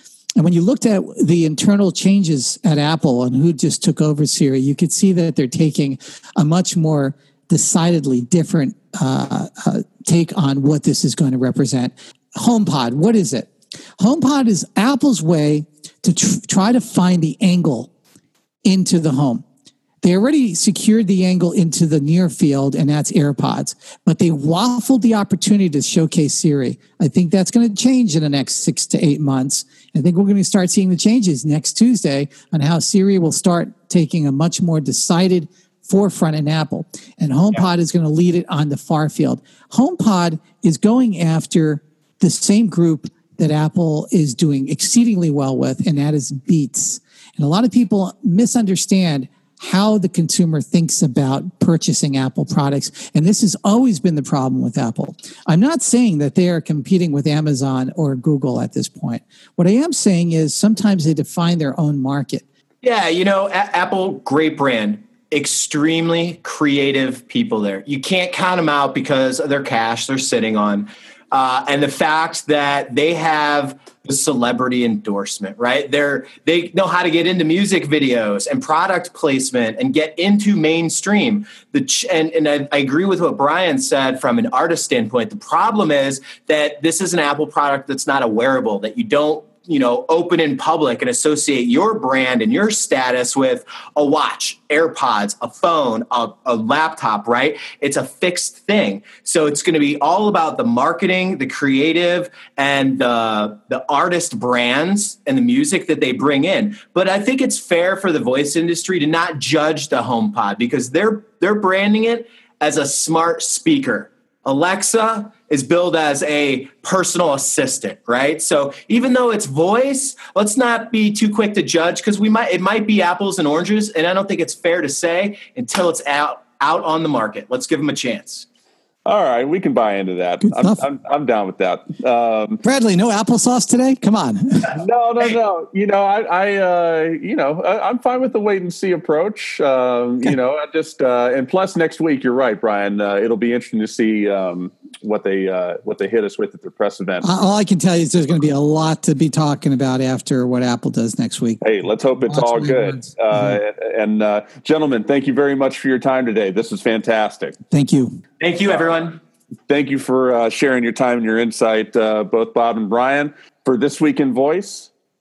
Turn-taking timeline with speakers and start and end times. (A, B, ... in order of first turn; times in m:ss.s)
0:00.4-0:17.9 A
0:18.6-0:19.4 A
0:20.0-1:02.4 A
1:02.8-2:08.4 B
2:09.0-2:12.6 C
2:10.4-2:10.8 A
2:12.6-2:14.7 A
2:14.7-2:27.3 C
2:27.2-2:31.7 A
2:31.6-2:37.6 C
2:32.2-2:33.6 A
2:37.7-2:38.2 A
2:38.4-2:39.2 B
2:39.7-2:44.9 C